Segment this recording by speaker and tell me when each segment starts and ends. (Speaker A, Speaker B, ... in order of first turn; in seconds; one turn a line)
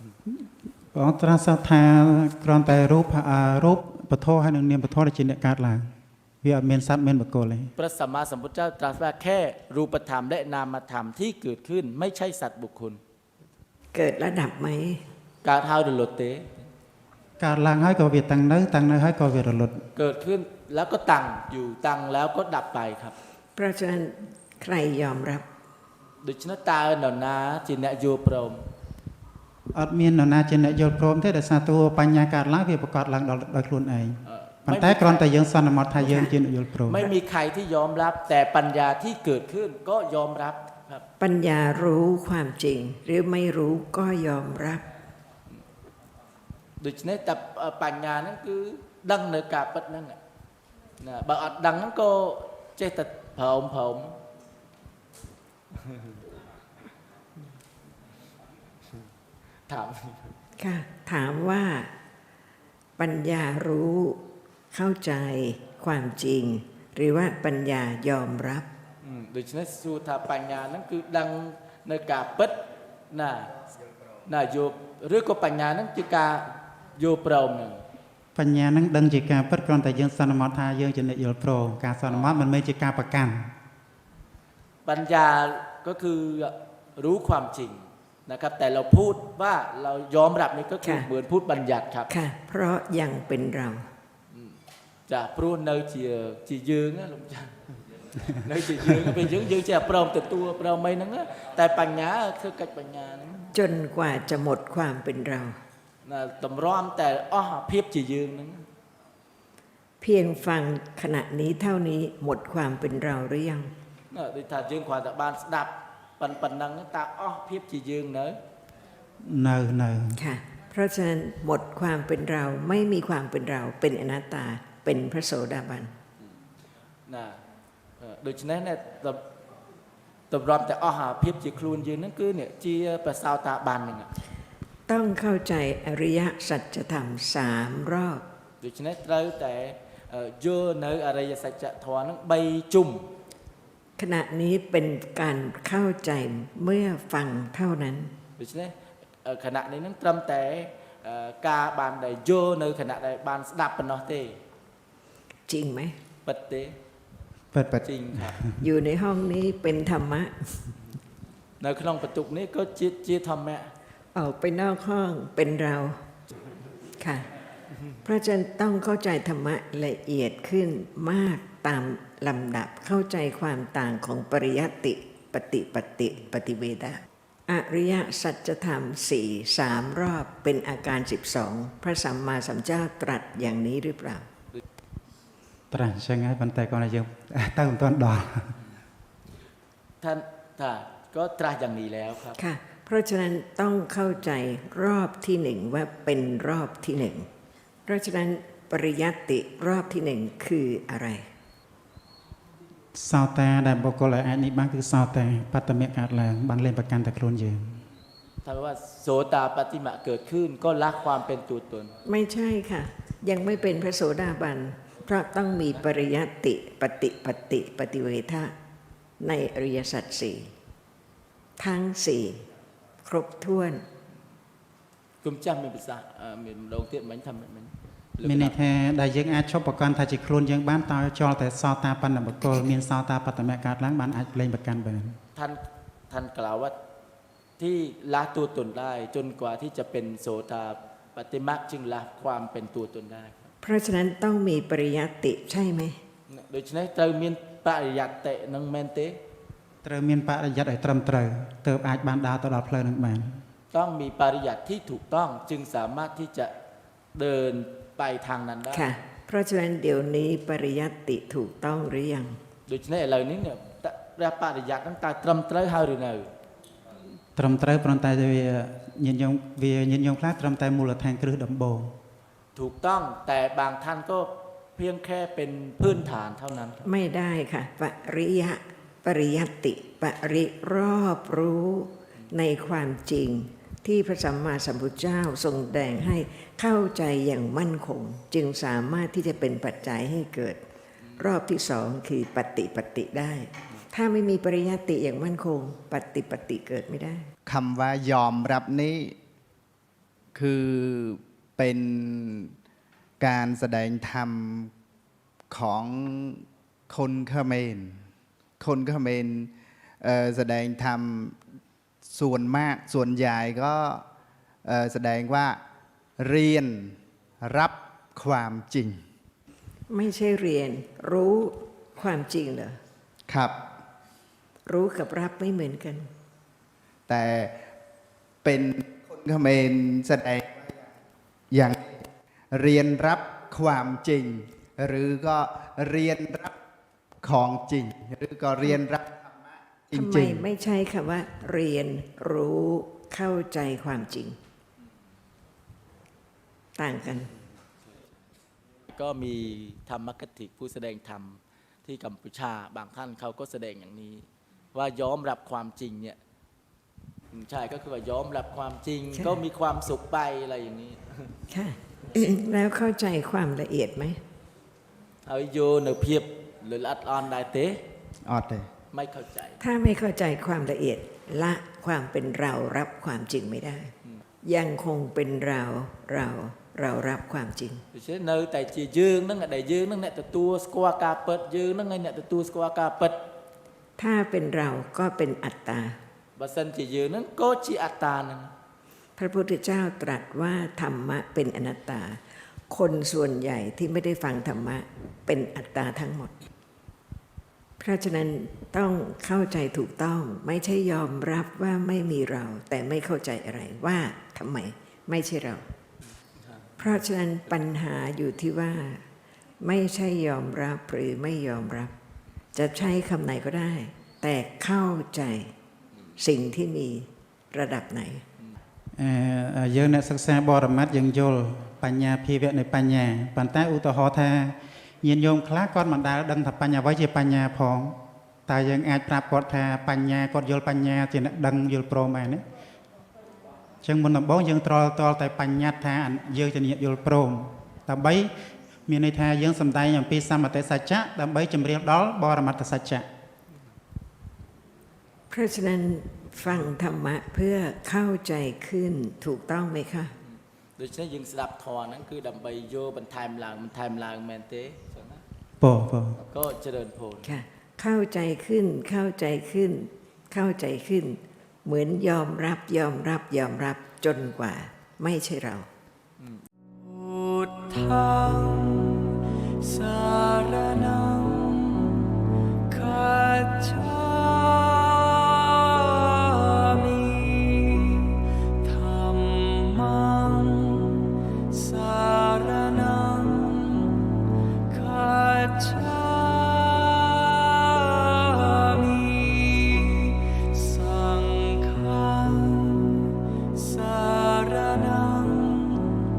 Speaker A: 0.3-5.9
Speaker A: 6.4-7.7
Speaker B: 7.8-13.0
Speaker C: 13.9-15.0
Speaker B: 15.4-16.5
Speaker A: 17.4-19.9
Speaker B: 19.9-23.1
Speaker C: 23.6-25.4
Speaker B: 26.2-28.6
Speaker A: 29.7-37.0
Speaker B: 34.2-35.3
Speaker C: 36.0-36.3
Speaker B: 36.9-41.0
Speaker C: 41.2-44.8
Speaker B: 46.8-50.2
Speaker B: 51.0-54.2
Speaker B: 55.8-56.1
Speaker B: 59.7-60.3
Speaker C: 60.6-61.9
Speaker C: 63.0-64.2
Speaker C: 64.7-68.7
Speaker B: 69.0-73.5
Speaker B: 74.2-77.8
Speaker A: 78.3-83.5
Speaker B: 82.1-82.5
Speaker B: 84.8-92.1
Speaker C: 92.1-93.9
Speaker B: 94.3-94.6
Speaker B: 95.1-97.5
Speaker B: 98.2-103.5
Speaker C: 103.5-105.6
Speaker B: 106.0-108.7
Speaker C: 110.0-113.7
Speaker B: 114.1-118.4
Speaker A: 119.2-120.2
Speaker C: 120.1-125.9
Speaker B: 127.1-127.4
Speaker B: 128.0-129.2
Speaker B: 130.3-134.1
Speaker C: 134.9-138.2
Speaker B: 138.6-143.1
Speaker C: 144.0-148.1
Speaker B: 148.4-154.4
Speaker C: 155.5-156.0
Speaker B: 156.2-156.8
Speaker A: 157.5-158.6
Speaker B: 157.8-158.4
Speaker C: 158.6-160.7
Speaker B: 161.6-163.7
Speaker C: 164.1-166.0
Speaker C: 167.0-167.3
Speaker C: 168.0-184.2
Speaker A: 185.7-188.6
Speaker B: 190.0-192.4
Speaker C: 192.4-197.3
Speaker C: 197.9-201.2
Speaker A: 202.9-207.8
Speaker B: 208.4-211.9
Speaker C: 212.1-218.5
Speaker C: 219.2-220.5
Speaker C: 221.6-222.4
Speaker C: 223.0-223.8
Speaker B: 225.2-228.6
Speaker A: 228.2-235.2
Speaker B: 235.3-236.7
Speaker B: 237.6-243.5
Speaker C: 243.6-246.0
Speaker B: 246.3-249.2
Speaker A: 249.8-253.4
Speaker B: 253.7-256.5
Speaker B: 257.1-258.9
Speaker C: 258.7-262.4
Speaker B: 262.7-266.3
Speaker A: 267.4-271.9
Speaker B: 272.6-276.8
Speaker C: 276.8-290.6
Speaker C: 291.2-297.3
Speaker D: 297.4-299.1
Speaker D: 300.3-302.5
Speaker D: 303.2-304.7
Speaker D: 305.5-308.1
Speaker D: 308.6-311.4
Speaker D: 312.1-314.0
Speaker D: 314.6-315.6
Speaker D: 316.2-319.0
Speaker C: 319.9-322.8
Speaker D: 323.3-323.6
Speaker C: 324.6-326.1
Speaker D: 327.1-327.6
Speaker D: 328.4-330.9
Speaker D: 331.5-331.9
Speaker D: 332.5-336.6
Speaker D: 337.2-340.5
Speaker C: 339.9-344.4
Speaker C: 346.8-347.3
Speaker B: 348.9-356.2
Speaker B: 357.3-361.3
Speaker C: 361.5-364.2
Speaker B: 365.2-367.8
Speaker D: 368.3-368.7
Speaker B: 368.9-369.6
Speaker C: 369.6-373.9
Speaker C: 374.4-377.8
Speaker B: 377.9-383.2
Speaker C: 384.0-386.0
Speaker B: 386.4-388.5
Speaker C: 389.2-392.2
Speaker C: 392.7-396.4
Speaker C: 397.8-405.6
Speaker B: 406.4-406.8
Speaker C: 406.8-409.0
Speaker C: 409.6-411.9
Speaker C: 412.6-415.5
Speaker C: 416.2-418.2
Speaker A: 418.9-432.4
Speaker A: 433.8-438.3
Speaker A: 438.9-443.1
Speaker C: 445.3-450.1
Speaker B: 450.3-455.2
Speaker A: 455.6-456.2
Speaker B: 456.2-457.3
Speaker C: 457.2-465.7
Speaker E: 466.8-472.1
Speaker E: 472.7-484.1
Speaker E: 484.7-496.0